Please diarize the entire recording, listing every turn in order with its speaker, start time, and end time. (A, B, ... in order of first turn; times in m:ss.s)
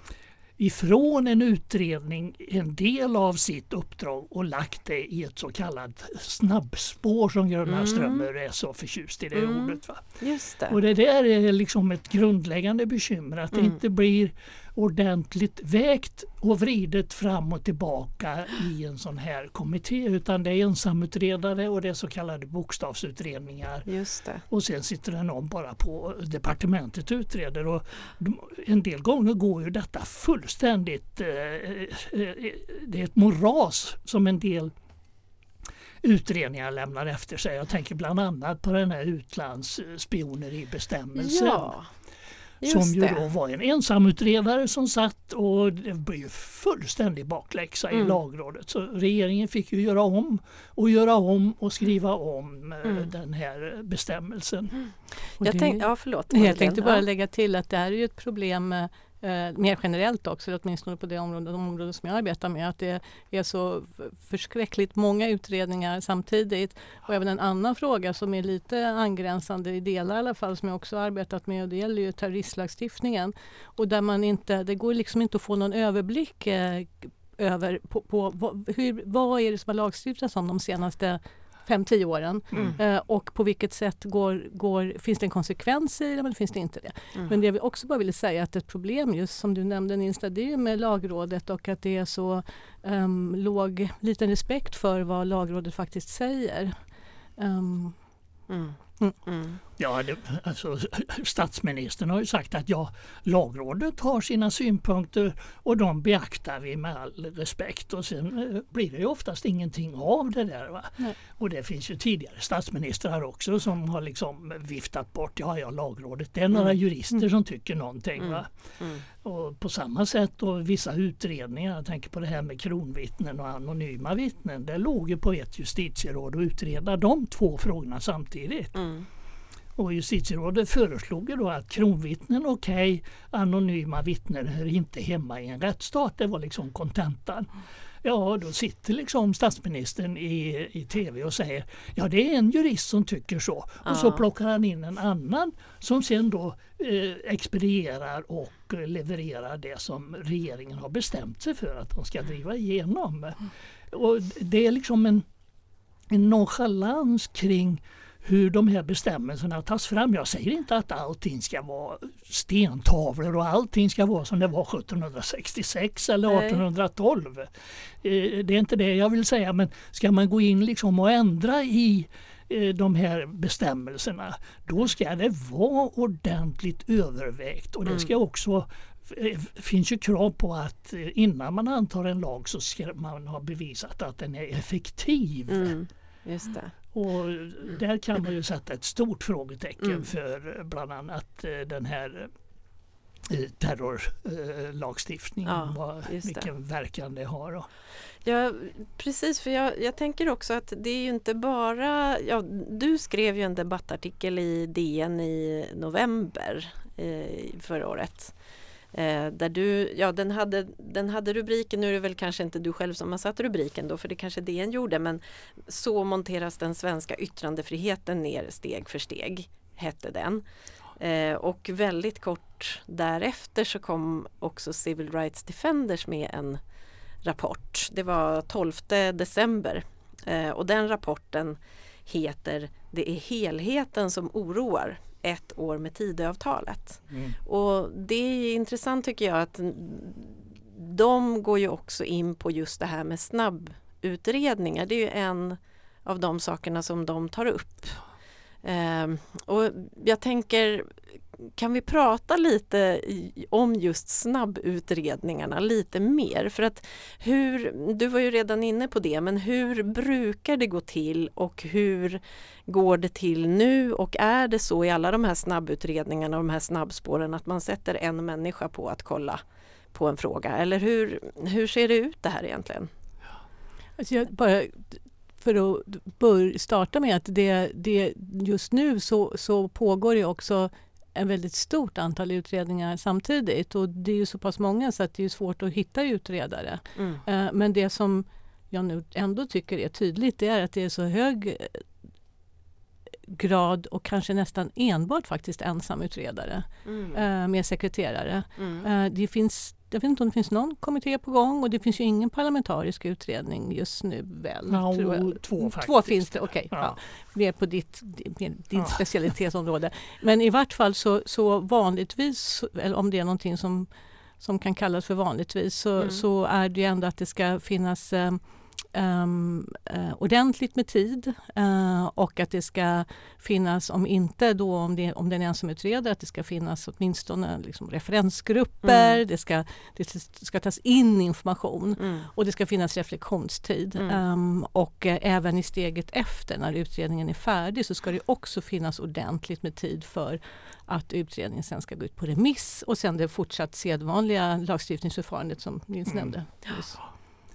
0:00.6-0:10.0 A
0:07.7-0:08.3 B
0:09.3-0:10.8 B
0:10.7-0:23.9 A
0:23.9-0:24.4 B
0:24.5-0:34.7 A
0:36.0-0:41.8 A
0:41.2-0:41.9 B
0:42.6-0:43.3 B
0:42.6-0:54.8 A
0:47.9-0:48.2 B
0:52.8-0:53.1 B
0:55.4-1:36.8 C
0:55.4-0:57.0 B
1:22.5-1:22.8 A
1:37.4-1:38.0 C
1:38.5-1:39.6 B
1:39.8-1:58.5 A
1:58.2-1:59.0 B
1:59.1-2:08.8 A
2:08.8-2:09.1 B
2:09.8-2:17.5 A
2:18.0-2:35.2 A
2:23.8-2:24.2 B
2:36.1-2:47.5 A
2:46.3-2:46.6 B
2:48.0-3:05.7 A
3:05.5-3:06.7 B
3:06.9-3:12.3 A
3:13.3-3:17.7 A
3:15.5-3:16.5 B
3:18.2-3:28.3 B
3:28.9-3:40.4 B
3:41.0-3:46.6 B
3:47.2-4:08.0 B
3:57.1-3:57.4 A
4:08.6-4:29.4 B
4:29.9-4:32.9 B
4:34.0-4:51.8 C
4:47.0-4:47.2 B
4:53.3-5:13.9 C
4:56.9-4:57.2 B
4:58.6-4:58.9 B
5:04.7-5:07.0 A
5:08.8-5:09.0 A
5:14.4-5:18.4 C
5:18.9-5:47.0 C
5:28.8-5:29.2 B
5:32.0-5:32.3 B
5:46.1-5:46.3 A